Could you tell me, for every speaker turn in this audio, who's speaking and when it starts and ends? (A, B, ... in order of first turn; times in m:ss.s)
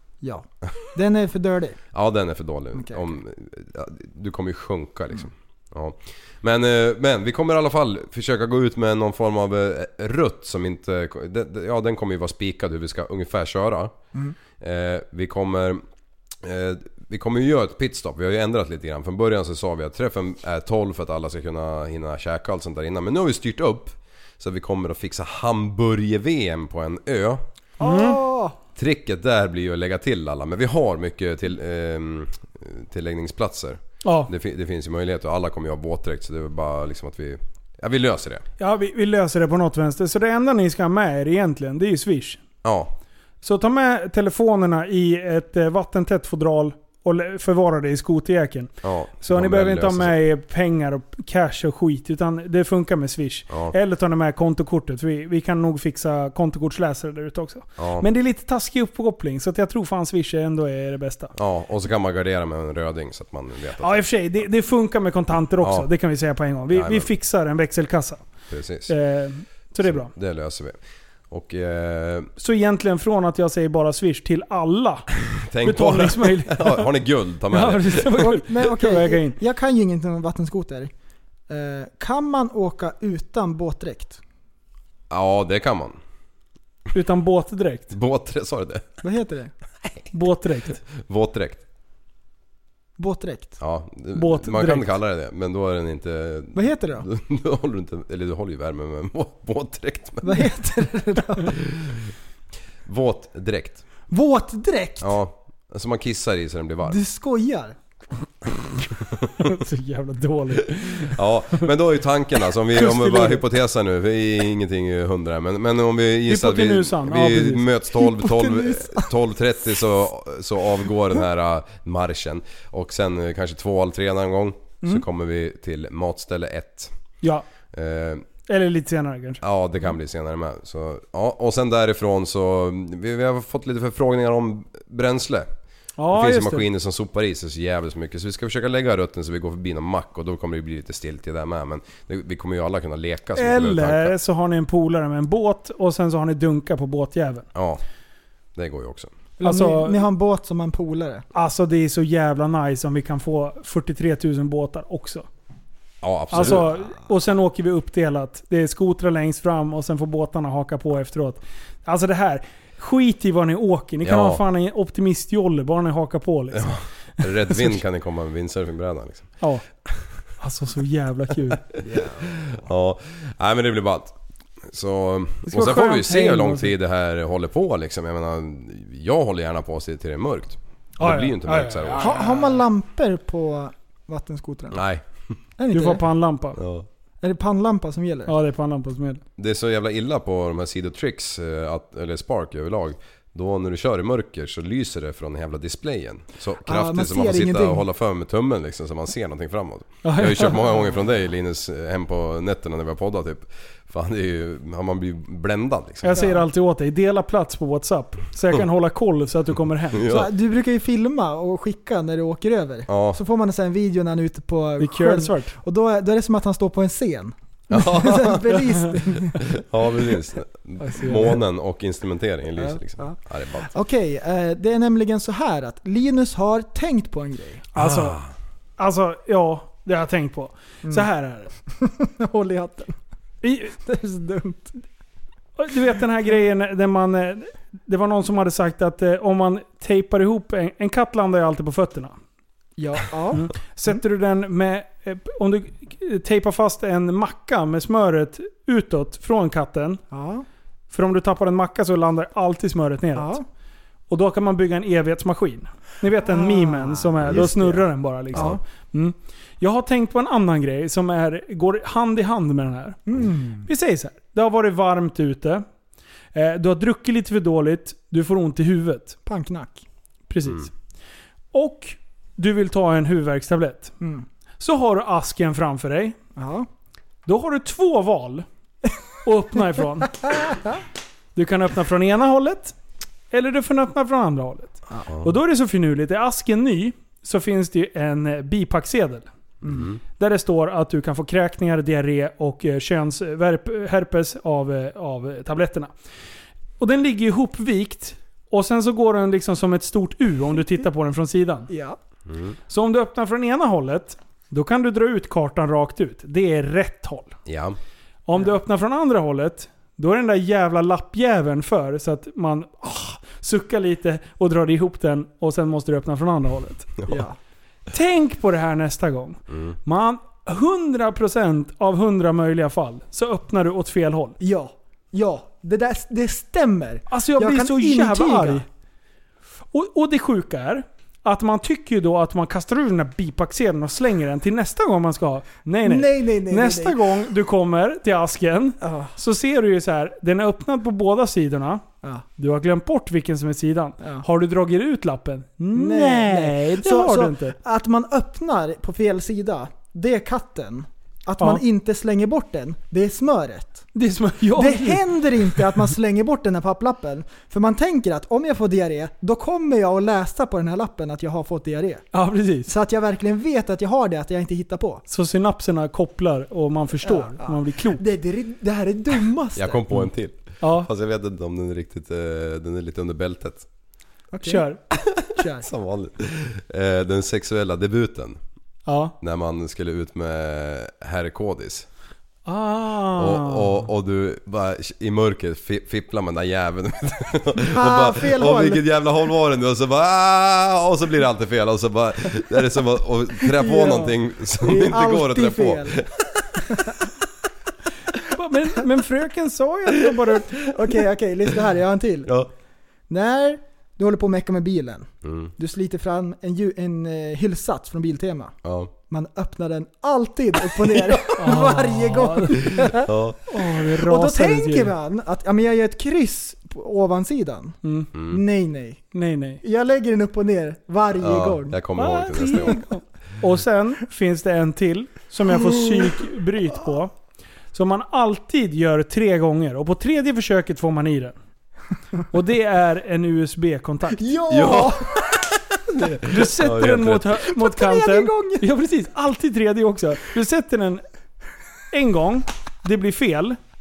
0:00.2-0:01.8 A
0:01.9-0:13.9 B
0:02.7-0:03.1 A
0:14.6-0:15.8 B
0:16.4-0:27.4 B
0:27.8-0:28.6 A
0:27.8-0:28.2 C
0:28.8-0:38.4 B
0:34.0-0:34.3 C
0:38.6-0:42.4 C
0:42.6-0:42.9 B
0:43.4-0:48.7 C
0:48.8-0:50.1 B
0:49.2-1:01.3 C
0:53.5-0:53.7 B
0:57.8-0:58.0 B
1:01.3-1:04.0 B
1:03.8-1:08.2 C
1:05.6-1:05.9 B
1:06.7-1:07.1 B
1:08.5-1:08.9 B
1:08.9-1:10.1 C
1:09.8-1:10.8 B
1:11.3-1:12.3 B
1:12.4-1:15.1 C
1:15.4-1:18.2 B
1:15.6-1:16.9 C
1:17.5-1:19.4 C
1:18.2-1:20.9 A
1:21.5-1:24.2 A
1:25.1-1:26.0 B
1:26.9-1:27.9 C
1:27.9-1:28.8 B
1:29.0-1:29.5 A
1:30.1-1:30.8 C
1:30.9-1:31.6 B
1:33.0-1:33.6 A
1:33.6-1:40.5 B
1:34.1-1:34.9 C
1:36.5-1:37.0 A
1:40.2-1:41.5 A
1:41.5-1:42.0 B
1:42.8-1:43.8 B
1:44.1-1:45.1 A
1:45.0-1:47.0 B
1:46.8-1:47.8 A
1:49.4-1:51.6 C
1:51.0-2:06.9 B
1:52.8-1:53.4 C
1:56.3-1:57.6 C
1:58.0-1:59.1 A
2:07.7-2:08.2 B
2:08.5-2:09.4 C
2:09.4-2:15.5 B
2:16.0-2:16.7 C
2:16.1-2:24.2 B
2:23.4-2:27.4 C
2:27.5-2:27.8 B
2:28.5-2:29.1 B
2:29.4-2:31.2 A
2:29.4-2:30.0 C
2:31.3-2:35.2 C
2:36.0-2:36.7 B
2:36.3-2:47.8 C
2:44.0-2:44.4 B
2:46.5-2:49.3 B
2:50.4-2:51.6 C
2:51.8-2:52.6 A
2:52.2-3:02.2 B
2:55.4-2:56.7 C
3:01.0-3:02.1 C
3:02.0-3:04.8 A
3:04.7-3:05.0 B
3:05.6-3:06.0 A
3:05.7-3:06.6 C
3:06.6-3:06.9 B
3:07.2-3:08.3 A
3:08.3-3:09.2 C
3:09.4-3:26.3 B
3:16.6-3:17.8 A
3:20.0-3:20.6 C
3:26.0-3:30.0 C
3:26.1-3:26.4 A
3:29.9-3:30.3 B
3:30.0-3:39.4 A
3:32.9-3:33.2 B
3:34.8-3:35.5 C
3:37.7-3:38.6 B
3:39.2-3:43.7 B
3:40.8-3:41.4 C
3:42.6-3:47.6 A
3:47.7-3:48.2 C
3:47.8-3:48.3 B
3:48.8-3:51.5 C
3:51.7-3:53.0 A
3:53.4-3:53.8 C
3:53.8-3:54.8 A
3:55.6-4:02.1 C
4:02.8-4:03.5 A
4:03.3-4:10.0 C
4:10.1-4:10.4 A
4:10.9-4:13.4 C
4:13.1-4:13.4 A
4:14.1-4:23.0 C
4:16.2-4:18.6 A
4:18.3-4:18.6 B
4:23.1-4:23.7 A
4:23.6-4:25.6 C
4:26.3-4:29.2 C
4:29.2-4:29.8 A
4:30.3-4:30.7 C
4:31.5-4:33.9 C
4:34.0-4:34.2 A
4:34.6-4:36.2 C
4:36.4-4:36.7 A
4:37.2-4:38.4 C
4:39.2-4:40.2 C
4:40.3-4:40.8 A
4:41.4-4:42.8 C
4:43.3-4:49.2 C
4:45.0-4:45.3 B
4:49.6-4:50.0 B
4:50.2-4:55.9 C
4:56.8-5:01.7 C
5:01.7-5:02.0 A
5:02.3-5:02.6 B
5:02.7-5:07.4 C
5:07.4-5:07.8 B
5:08.3-5:16.9 C
5:17.1-5:17.4 A
5:17.9-5:24.4 C
5:19.5-5:19.8 B
5:24.4-5:28.6 A
5:27.1-5:28.6 C
5:29.7-5:41.8 C
5:35.8-5:37.0 A
5:38.8-5:39.1 A
5:42.4-5:47.6 C
5:45.7-5:53.9 A
5:53.9-5:55.8 C
5:54.5-6:02.1 A
6:02.1-6:02.7 C
6:02.7-6:05.0 A
6:05.1-6:08.0 C
6:07.0-6:10.0 A
6:09.6-6:13.6 B
6:10.6-6:10.9 C
6:14.3-6:14.7 A
6:14.4-6:14.8 C
6:15.4-6:15.7 A
6:15.4-6:18.4 B
6:18.9-6:19.1 C
6:19.2-6:21.9 B
6:22.4-6:23.8 C
6:23.2-6:36.3 B
6:27.6-6:28.8 A
6:33.6-6:36.0 A
6:38.3-6:40.6 C
6:40.7-6:42.3 A
6:43.1-6:48.6 A
6:45.2-6:45.5 B
6:48.6-6:48.9 B
6:49.1-6:53.1 A
6:50.8-6:51.4 B
6:51.4-6:52.9 C
6:53.0-6:53.4 B
6:53.5-6:54.9 C
6:53.8-6:59.0 A
6:57.8-6:58.1 C
6:58.1-6:58.4 B
6:59.1-6:59.6 C
6:59.6-7:01.8 A
7:01.2-7:02.8 B
7:02.0-7:07.1 C
7:02.4-7:02.7 A
7:07.7-7:11.3 C
7:12.3-7:14.2 C
7:14.2-7:15.2 A
7:14.5-7:17.4 B
7:16.2-7:21.0 C
7:17.5-7:18.7 A
7:21.9-7:23.6 C